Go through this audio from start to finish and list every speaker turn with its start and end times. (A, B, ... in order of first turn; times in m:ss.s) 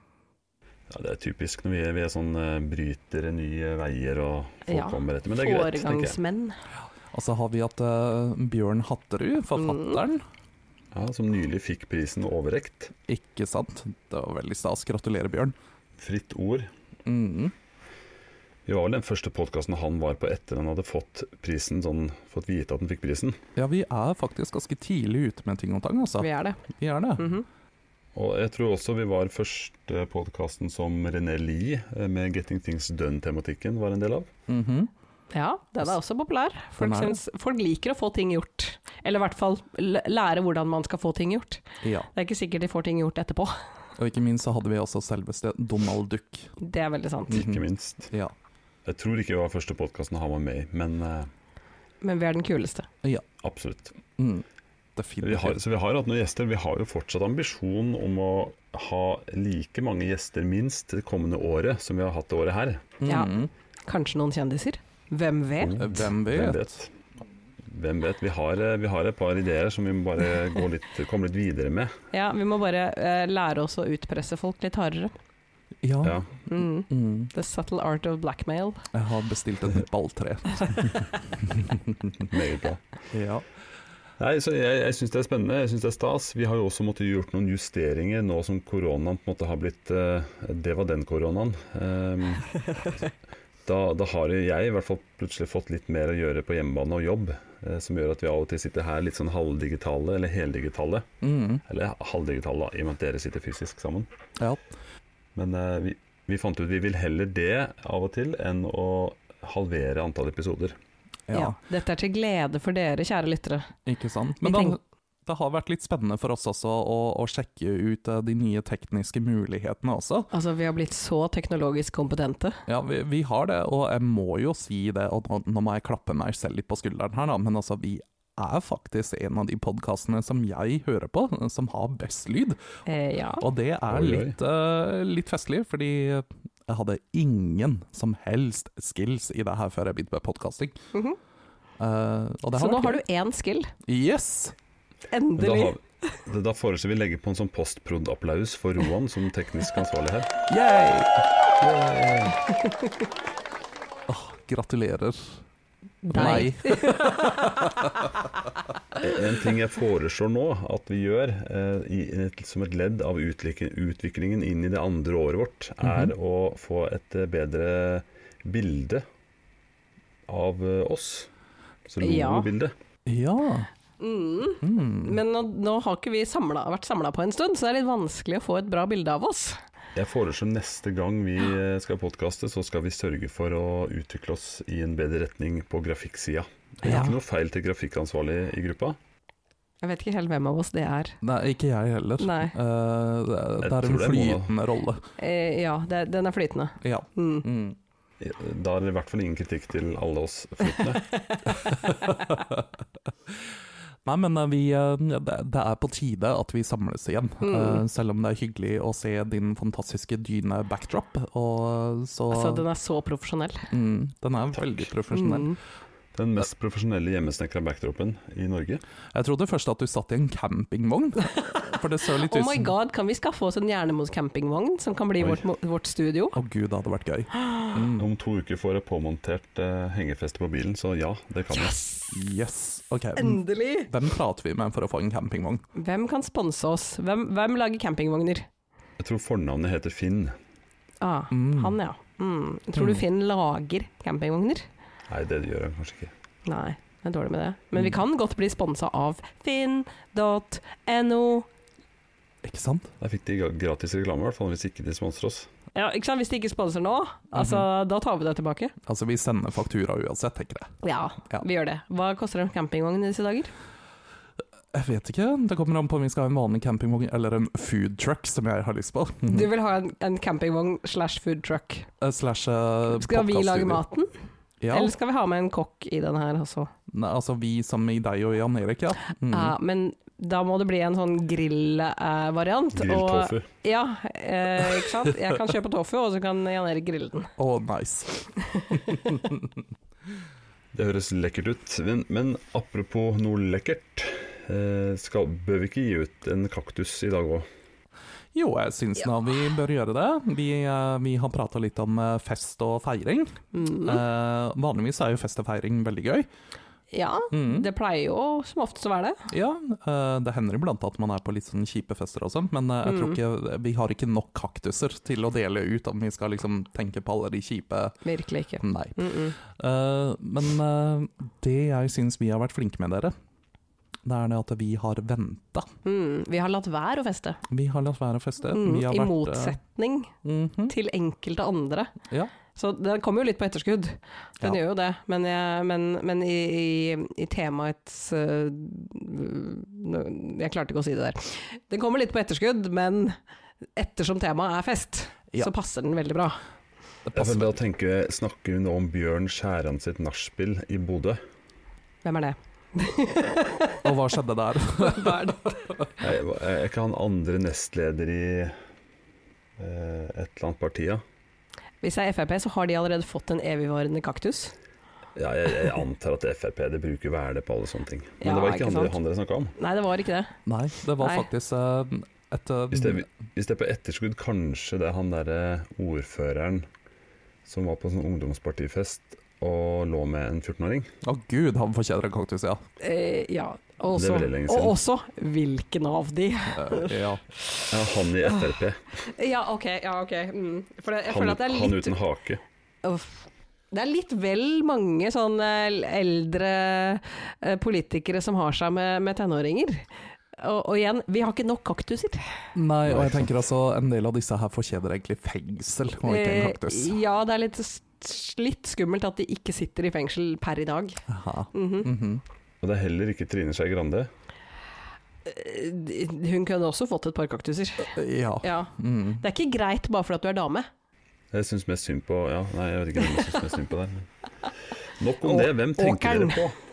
0:00.9-0:06.2 A
0:04.7-0:06.6 B
0:07.1-0:10.2 C
0:09.6-0:10.0 B
0:10.9-0:12.9 A
0:13.1-0:15.5 C
0:16.0-0:16.7 A
0:17.0-0:17.5 C
0:18.6-0:23.4 A
0:23.6-0:27.3 C
0:26.2-0:26.6 B
0:27.2-0:27.4 B
0:28.1-0:34.3 A
0:34.5-0:34.9 C
0:35.3-0:43.6 B
0:36.8-0:37.2 C
0:41.8-0:42.1 C
0:44.0-0:46.5 C
0:46.6-0:47.4 B
0:47.3-0:48.3 C
0:47.3-0:48.1 A
0:48.8-0:51.3 A
0:52.0-0:52.9 B
0:53.4-0:54.0 A
0:54.2-0:54.4 C
0:55.0-0:55.6 C
0:55.2-1:02.9 A
1:03.0-1:03.5 C
1:03.0-1:05.9 B
1:05.6-1:06.9 A
1:05.8-1:06.7 C
1:07.7-1:11.9 A
1:12.1-1:15.1 B
1:15.8-1:16.2 C
1:16.0-1:16.3 A
1:16.5-1:18.8 B
1:16.9-1:17.3 C
1:18.9-1:22.2 C
1:22.2-1:22.8 A
1:23.1-1:23.4 C
1:24.2-1:32.9 A
1:33.6-1:41.1 A
1:41.2-1:41.6 C
1:41.6-1:44.1 A
1:45.4-1:50.8 A
1:51.3-1:51.6 C
1:51.3-1:53.7 B
1:53.8-2:00.3 C
1:54.4-1:54.8 B
2:00.3-2:02.6 B
2:02.7-2:12.6 C
2:12.8-2:13.4 B
2:13.4-2:20.8 C
2:13.9-2:14.3 A
2:20.9-2:21.2 B
2:21.8-2:23.0 C
2:22.5-2:23.7 B
2:23.8-2:24.5 C
2:25.1-2:25.8 B
2:25.4-2:30.3 A
2:30.5-2:31.2 C
2:31.6-2:32.4 A
2:34.1-2:35.3 C
2:36.0-2:37.9 C
2:36.1-2:37.4 B
2:38.9-2:49.0 A
2:45.8-2:46.1 C
2:50.3-2:51.3 A
2:51.9-2:52.7 A
2:52.0-2:52.5 B
2:53.0-2:53.7 C
2:54.0-2:59.6 B
2:54.6-2:55.2 C
2:59.9-3:09.0 A
3:06.8-3:07.1 C
3:06.8-3:07.1 B
3:09.8-3:11.2 B
3:11.2-3:15.0 C
3:12.2-3:12.5 B
3:13.6-3:14.5 A
3:15.2-3:17.5 B
3:16.8-3:17.8 C
3:18.2-3:21.1 A
3:21.6-3:22.6 C
3:24.0-3:32.6 C
3:27.4-3:27.8 B
3:32.3-3:33.7 B
3:33.7-3:35.5 C
3:34.6-3:34.8 A
3:35.1-3:35.6 B
3:36.1-3:38.8 A
3:39.1-3:42.7 C
3:41.2-3:46.4 B
3:46.3-3:48.1 C
3:47.4-3:47.7 B
3:48.0-3:51.8 A
3:52.1-3:55.6 C
3:53.2-3:53.9 B
3:55.7-3:58.4 B
3:59.0-4:00.3 A
4:01.0-4:04.7 B
4:01.3-4:01.8 C
4:02.8-4:03.0 C
4:05.1-4:06.1 A
4:06.4-4:11.5 B
4:12.4-4:12.9 C
4:13.0-4:15.5 A
4:15.7-4:18.7 B
4:17.3-4:17.7 C
4:18.8-4:20.7 C
4:20.8-4:23.5 B
4:24.7-4:29.5 C
4:29.3-4:31.9 B
4:32.0-4:33.8 C
4:32.9-4:34.1 B
4:34.6-4:34.9 C
4:34.7-4:36.7 B
4:36.9-4:39.6 C
4:39.3-4:47.3 B
4:42.7-4:43.5 A
4:47.4-4:48.2 C
4:48.7-4:49.6 C
4:50.7-4:57.4 A
4:58.3-5:06.3 C
5:03.5-5:04.0 B
5:06.9-5:09.3 B
5:07.3-5:07.7 C
5:09.3-5:18.0 C
5:12.8-5:13.2 B
5:18.0-5:19.3 B
5:18.6-5:23.1 C
5:24.0-5:25.7 C
5:25.8-5:27.4 B
5:27.5-5:29.6 C
5:28.5-5:30.1 B
5:30.2-5:30.7 C
5:30.7-5:32.0 B
5:32.5-5:43.2 B
5:43.8-5:46.4 B
5:47.0-5:47.5 C
5:47.1-5:51.2 A
5:52.0-5:53.8 B
5:53.8-5:55.9 C
5:54.8-5:55.6 B
5:56.0-5:58.6 A
5:59.6-6:01.0 A
6:01.8-6:04.5 B
6:05.2-6:09.6 A
6:08.2-6:09.0 B
6:09.6-6:10.4 B
6:10.4-6:13.0 C
6:11.0-6:11.3 B
6:12.7-6:16.6 A
6:17.4-6:20.9 A
6:21.0-6:22.6 C
6:22.8-6:27.0 B
6:23.9-6:24.8 A
6:26.5-6:27.2 C
6:27.7-6:28.8 A
6:29.0-6:32.0 B
6:31.1-6:32.4 A
6:32.8-6:42.2 B
6:42.5-6:46.9 C
6:42.8-6:43.3 A
6:46.0-6:51.9 B
6:51.1-6:52.2 C
6:52.6-6:54.1 A
6:55.2-7:00.7 B
6:57.9-6:59.2 C
7:01.3-7:04.1 A
7:05.0-7:06.6 A
7:05.2-7:06.4 B